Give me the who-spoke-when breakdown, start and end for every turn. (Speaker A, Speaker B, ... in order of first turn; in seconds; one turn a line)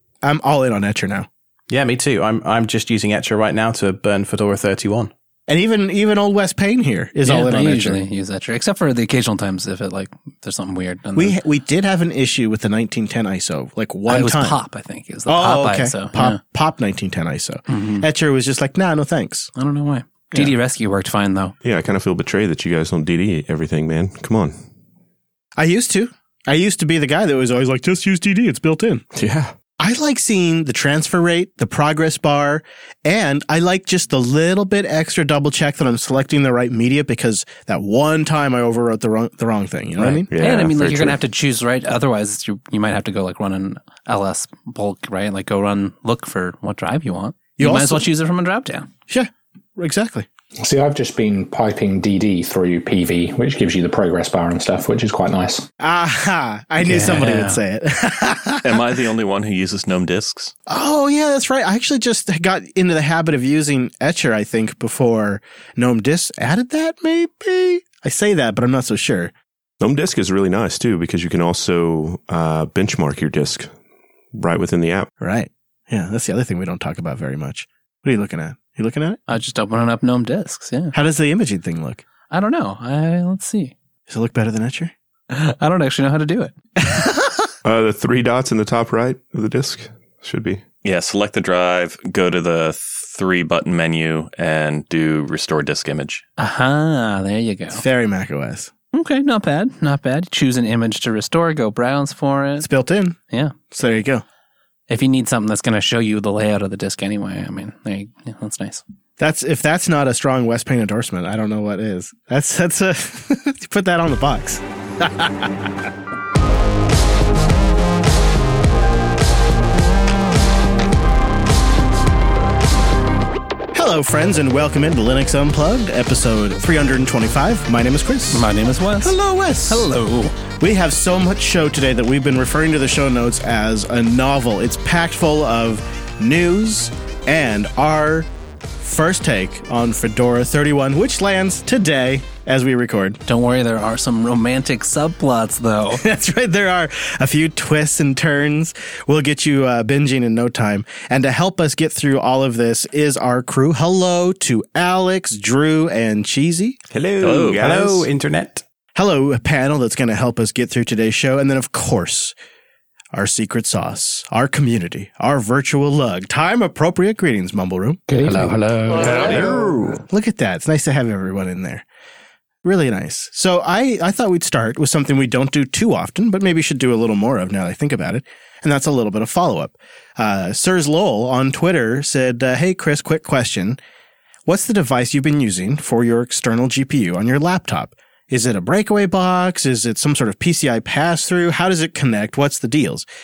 Speaker A: 0.2-1.3
Speaker B: 1.7-5.1
Speaker A: 5.5-8.0
Speaker C: 7.2-11.4
Speaker A: 11.2-14.6
Speaker C: 14.1-16.4
Speaker A: 15.3-19.5
Speaker C: 17.7-18.1
Speaker C: 19.6-21.5
Speaker D: 21.6-24.6
Speaker A: 25.6-29.0
Speaker D: 29.1-29.5
Speaker A: 29.8-40.3
Speaker C: 40.0-48.9
Speaker D: 40.3-41.2
Speaker A: 47.6-48.0
Speaker A: 49.1-50.3
Speaker E: 50.6-55.6
Speaker A: 55.8-58.9
Speaker C: 56.8-57.6
Speaker F: 58.6-60.5
Speaker A: 60.7-69.3
Speaker D: 69.8-73.7
Speaker D: 74.3-75.1
Speaker A: 75.2-79.2
Speaker C: 79.3-80.9
Speaker A: 80.9-82.0
Speaker C: 82.3-83.7
Speaker A: 84.1-84.9
Speaker C: 85.3-86.5
Speaker A: 86.8-87.5
Speaker D: 87.6-90.6
Speaker F: 90.8-96.2
Speaker C: 96.4-97.8
Speaker A: 97.7-98.7
Speaker C: 98.9-102.7
Speaker A: 102.6-103.2
Speaker A: 103.7-104.2
Speaker C: 104.9-108.8
Speaker A: 109.2-115.7
Speaker A: 123.7-128.5
Speaker C: 128.3-129.1
Speaker A: 129.0-129.9
Speaker C: 129.7-130.3
Speaker A: 130.6-138.3
Speaker A: 138.8-143.2
Speaker C: 143.2-146.0
Speaker A: 145.9-156.8
Speaker D: 156.9-158.0
Speaker F: 157.2-158.1
Speaker B: 157.3-158.6
Speaker A: 158.9-162.3
Speaker A: 163.1-168.1
Speaker E: 168.1-169.5
Speaker B: 168.2-168.6
Speaker D: 169.0-169.6
Speaker A: 169.0-171.8
Speaker A: 172.6-183.8
Speaker A: 184.4-193.0